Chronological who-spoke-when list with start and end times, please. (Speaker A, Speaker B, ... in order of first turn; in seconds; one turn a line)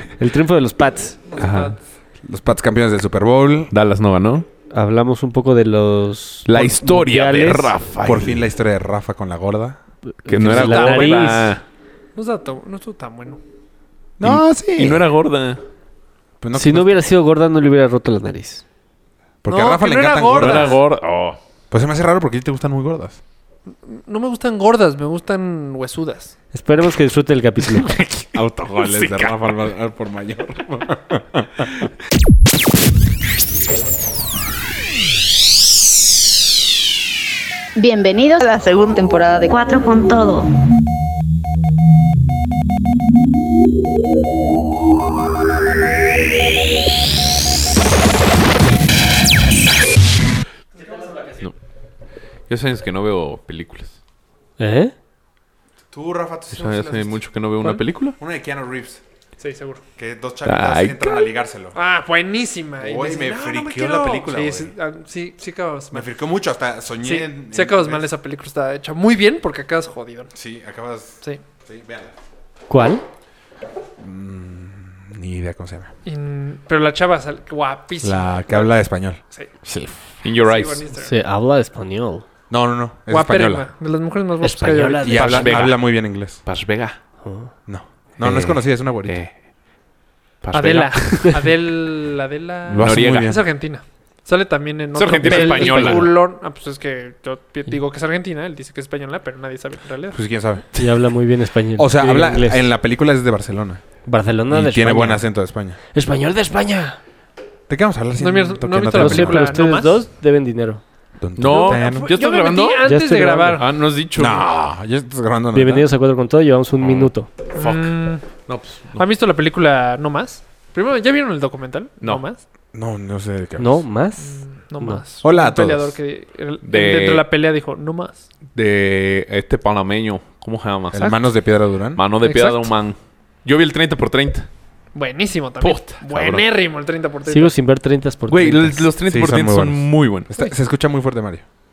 Speaker A: 0.2-1.2
Speaker B: 1.2-1.8
Speaker C: 1.4-1.7
Speaker D: 2.2-3.7
Speaker C: 3.7-4.5
Speaker A: 4.7-7.7
Speaker C: 6.4-8.5
Speaker D: 8.0-9.8
Speaker A: 10.2-11.5
Speaker C: 10.3-11.6
Speaker D: 10.3-11.1
Speaker B: 10.5-11.4
Speaker B: 12.1-13.4
Speaker D: 14.2-15.0
Speaker C: 14.2-15.6
Speaker D: 16.4-17.0
Speaker A: 16.5-18.6
Speaker D: 19.4-20.7
Speaker B: 19.5-20.8
Speaker C: 20.3-21.4
Speaker D: 21.7-23.2
Speaker B: 23.9-26.3
Speaker A: 26.5-27.9
Speaker D: 28.3-31.8
Speaker C: 28.8-29.4
Speaker E: 37.8-40.5
Speaker C: 52.5-53.9
Speaker A: 54.6-54.9
Speaker D: 55.9-57.2
Speaker C: 56.5-58.1
Speaker D: 58.2-59.0
Speaker B: 59.4-59.8
Speaker D: 60.0-61.8
Speaker C: 60.5-61.3
Speaker B: 61.7-66.1
Speaker D: 62.8-64.7
Speaker D: 65.9-68.0
Speaker B: 67.0-70.3
Speaker D: 70.3-72.1
Speaker A: 72.7-73.0
Speaker D: 74.0-75.9
Speaker B: 76.0-78.7
Speaker D: 78.0-80.2
Speaker C: 80.2-80.8
Speaker B: 80.4-81.2
Speaker A: 81.0-82.2
Speaker D: 82.5-83.7
Speaker B: 83.1-85.6
Speaker A: 84.4-85.5
Speaker D: 85.0-86.4
Speaker C: 85.1-87.0
Speaker A: 87.2-87.5
Speaker D: 87.7-89.2
Speaker C: 88.2-89.3
Speaker C: 90.4-91.5
Speaker B: 90.5-100.2
Speaker D: 92.7-93.5
Speaker C: 92.8-93.4
Speaker C: 94.9-96.1
Speaker A: 95.3-95.7
Speaker D: 95.7-96.0
Speaker D: 100.1-101.1
Speaker A: 100.8-102.7
Speaker D: 101.8-103.8
Speaker A: 104.0-105.2
Speaker D: 104.5-105.8
Speaker A: 105.9-107.0
Speaker D: 107.7-109.5
Speaker B: 108.2-110.0
Speaker A: 108.9-110.8
Speaker D: 111.2-112.1
Speaker C: 111.4-112.8
Speaker B: 111.5-113.7
Speaker A: 112.8-113.6
Speaker C: 113.6-114.5
Speaker D: 114.2-115.9
Speaker A: 115.5-117.3
Speaker C: 116.8-119.0
Speaker B: 117.5-118.2
Speaker B: 119.0-122.4
Speaker D: 122.7-123.8
Speaker A: 123.6-125.0
Speaker B: 124.2-128.2
Speaker D: 125.2-126.0
Speaker C: 126.6-127.3
Speaker C: 128.5-131.2
Speaker D: 130.9-132.0
Speaker C: 131.9-134.5
Speaker B: 132.2-132.7
Speaker B: 134.9-137.5
Speaker C: 135.6-136.4
Speaker A: 137.3-138.8
Speaker C: 138.3-140.3
Speaker D: 139.1-141.4